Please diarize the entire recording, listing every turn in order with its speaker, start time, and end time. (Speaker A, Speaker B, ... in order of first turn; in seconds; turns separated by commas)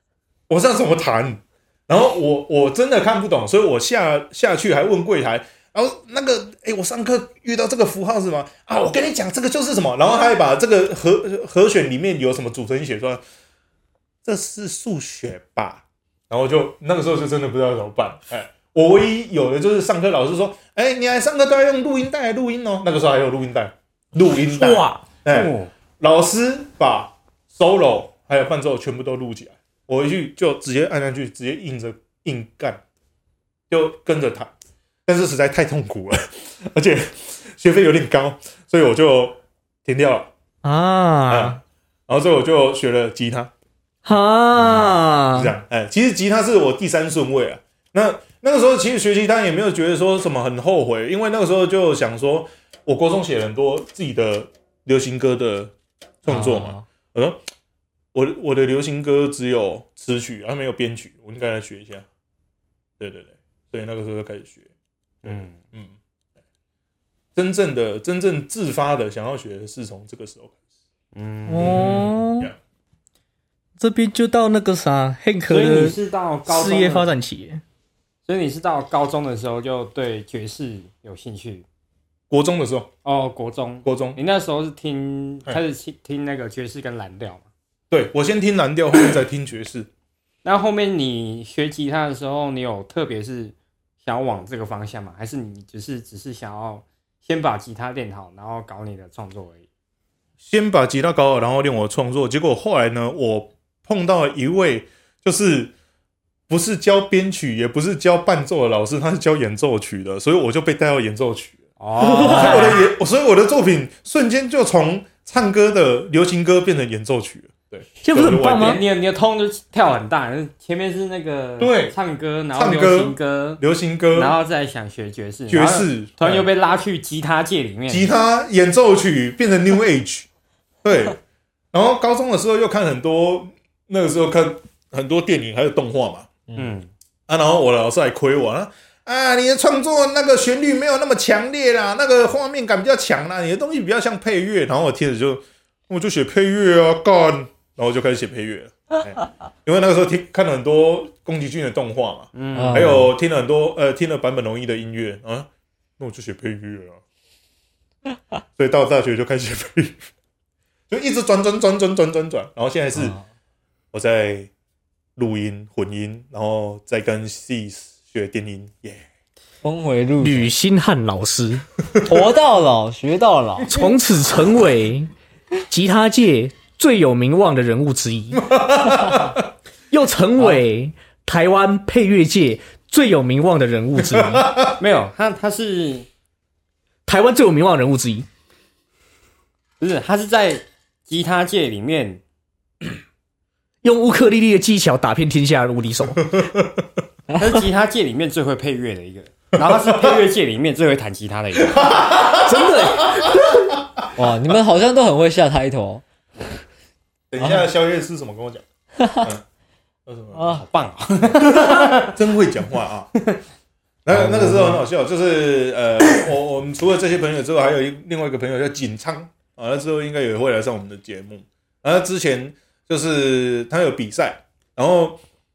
Speaker A: 0.5-13.2, Speaker A: 14.2-32.8, Speaker B: 24.4-25.0, Speaker C: 25.3-25.7, Speaker A: 33.7-34.5, Speaker A: 35.0-40.3, Speaker B: 40.6-41.6, Speaker A: 41.3-43.5, Speaker B: 44.0-45.5, Speaker A: 44.5-55.7, Speaker A: 56.2-57.4, Speaker D: 56.2-56.8, Speaker A: 58.1-62.0, Speaker A: 63.0-64.7, Speaker C: 65.2-65.6, Speaker A: 65.2-65.9, Speaker A: 67.3-70.6, Speaker C: 71.1-72.1, Speaker B: 71.5-72.5, Speaker A: 71.6-72.5, Speaker B: 73.8-77.6, Speaker C: 75.5-77.1, Speaker C: 78.2-81.7, Speaker A: 82.3-82.9, Speaker C: 83.0-87.5, Speaker A: 83.8-84.2, Speaker A: 87.9-89.9, Speaker C: 90.4-99.7, Speaker A: 100.4-105.7, Speaker A: 106.5-118.8, Speaker C: 111.8-112.9, Speaker B: 112.0-112.7, Speaker B: 118.0-118.8, Speaker C: 118.5-123.6, Speaker A: 121.6-121.9, Speaker A: 122.5-124.3, Speaker C: 124.1-128.1, Speaker A: 125.5-126.5, Speaker A: 127.9-130.3, Speaker A: 130.8-131.2, Speaker A: 131.7-136.3, Speaker C: 136.6-136.9, Speaker A: 137.3-155.5, Speaker C: 152.3-153.0, Speaker D: 152.5-153.1, Speaker A: 156.0-157.0, Speaker A: 158.6-160.0, Speaker A: 160.9-163.1, Speaker D: 162.9-163.2, Speaker A: 163.9-164.5, Speaker A: 165.2-169.0, Speaker D: 169.6-170.5, Speaker B: 170.2-171.6, Speaker D: 172.0-173.7, Speaker B: 173.7-175.1, Speaker B: 175.7-178.5, Speaker A: 178.3-179.4, Speaker B: 179.9-184.5, Speaker A: 183.9-184.8, Speaker C: 184.8-186.1, Speaker B: 187.1-188.3, Speaker C: 189.8-192.2, Speaker B: 193.8-196.3, Speaker A: 196.3-196.8, Speaker C: 197.3-202.2, Speaker A: 199.7-200.2, Speaker A: 201.7-203.8, Speaker B: 202.3-203.7, Speaker D: 204.1-206.0, Speaker A: 207.3-208.6, Speaker D: 207.4-207.6, Speaker D: 209.0-209.3, Speaker A: 210.1-210.6, Speaker D: 210.3-210.6, Speaker C: 210.5-212.1, Speaker A: 211.3-213.1, Speaker A: 214.0-225.2, Speaker D: 214.1-214.8